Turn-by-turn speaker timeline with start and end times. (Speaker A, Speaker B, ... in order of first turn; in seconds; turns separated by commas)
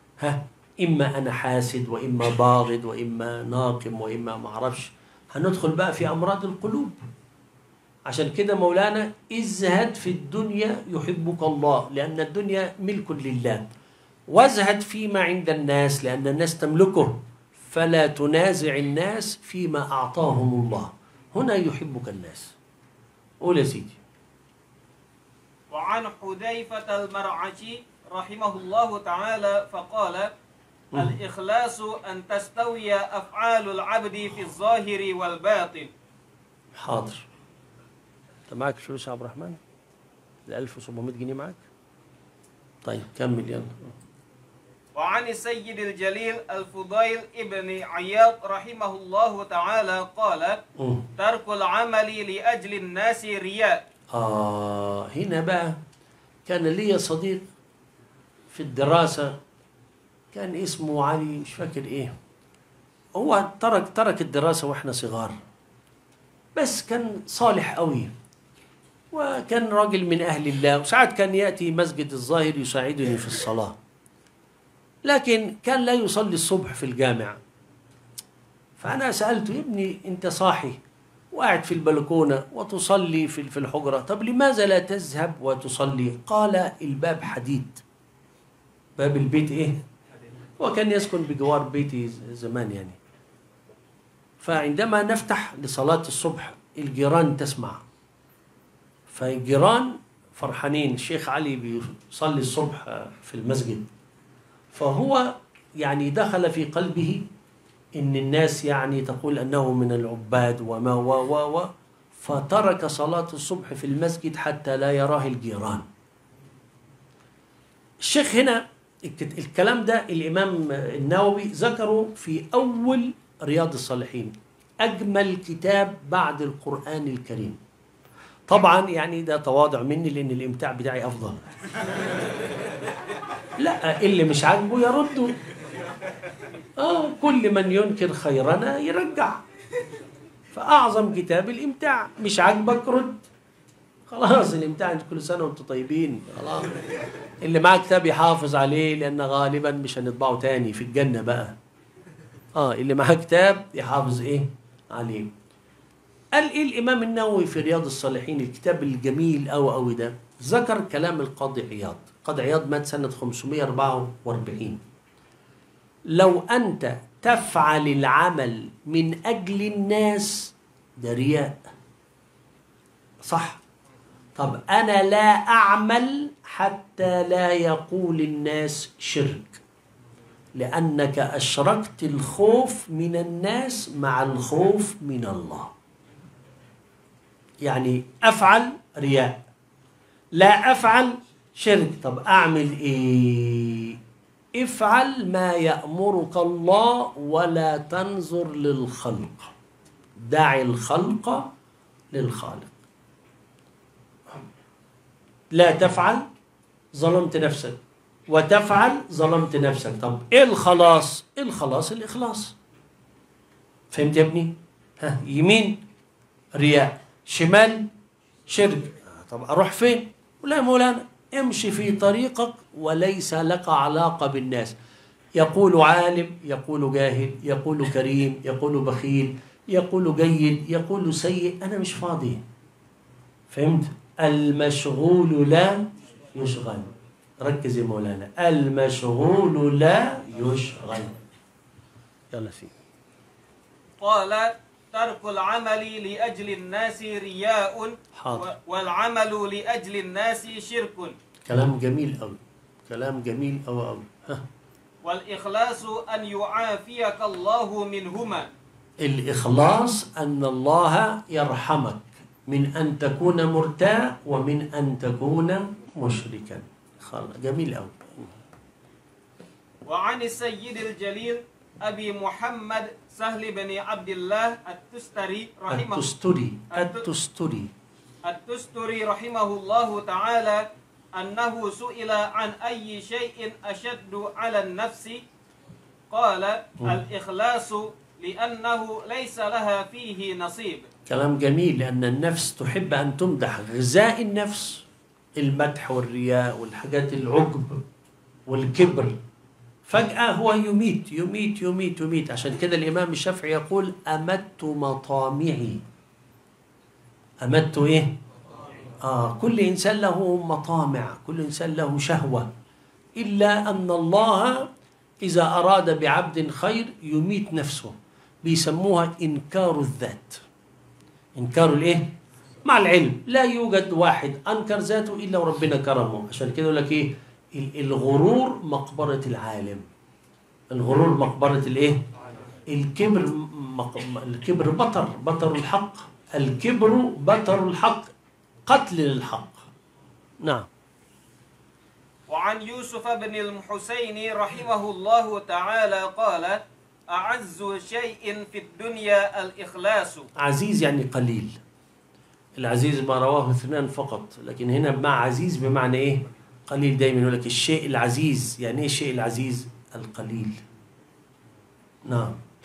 Speaker A: 0.2-7.0, Speaker A: 8.1-13.6, Speaker A: 14.3-22.6, Speaker A: 23.4-24.0, Speaker B: 25.7-30.3, Speaker B: 31.0-35.9, Speaker A: 36.8-37.3, Speaker A: 38.5-39.6, Speaker A: 40.5-41.6, Speaker A: 42.8-43.9, Speaker B: 45.0-50.6, Speaker A: 50.8-51.1, Speaker B: 51.2-53.8, Speaker A: 54.1-55.8, Speaker A: 56.5-57.5, Speaker A: 58.5-59.4, Speaker A: 60.3-62.1, Speaker A: 63.1-65.4, Speaker A: 66.5-68.1, Speaker A: 69.1-73.8, Speaker A: 75.0-77.4, Speaker A: 78.8-80.8, Speaker A: 81.3-87.8, Speaker A: 89.0-89.8, Speaker A: 90.6-93.0, Speaker A: 94.4-97.8, Speaker A: 99.1-103.9, Speaker A: 104.7-107.2, Speaker A: 108.0-115.9, Speaker A: 118.0-127.6, Speaker A: 128.5-131.5, Speaker A: 133.6-135.4, Speaker A: 136.8-139.4, Speaker A: 140.5-143.2, Speaker A: 144.1-146.8, Speaker A: 147.4-151.6, Speaker A: 152.6-155.3, Speaker A: 156.3-164.8, Speaker A: 166.1-171.7, Speaker A: 173.2-173.6, Speaker A: 174.4-179.6, Speaker A: 180.6-185.7, Speaker A: 187.6-189.4, Speaker A: 190.3-194.0, Speaker A: 194.6-199.5, Speaker A: 200.2-201.5, Speaker A: 202.1-202.7, Speaker A: 205.5-206.3, Speaker A: 206.9-212.6, Speaker A: 213.9-215.8, Speaker A: 216.6-217.9, Speaker A: 218.5-224.7, Speaker A: 225.4-232.4, Speaker A: 233.5-241.2, Speaker A: 242.3-242.8, Speaker B: 244.0-251.2, Speaker A: 248.2-248.5, Speaker A: 251.5-254.5, Speaker B: 255.0-258.5, Speaker A: 259.0-268.3, Speaker B: 269.9-276.1, Speaker A: 275.7-277.7, Speaker B: 276.7-277.1, Speaker B: 278.2-285.2, Speaker B: 286.1-290.9, Speaker A: 291.1-294.9, Speaker A: 295.4-297.8, Speaker A: 298.5-299.2, Speaker A: 299.9-305.8, Speaker A: 307.4-308.2, Speaker A: 309.0-312.5, Speaker A: 313.2-314.7, Speaker A: 315.2-320.4, Speaker A: 321.4-322.1, Speaker A: 322.6-329.9, Speaker A: 330.7-332.0, Speaker A: 332.7-338.1, Speaker A: 338.7-339.7, Speaker A: 340.4-340.7, Speaker B: 342.3-350.3, Speaker A: 350.4-351.6, Speaker A: 352.6-360.6, Speaker A: 362.1-362.4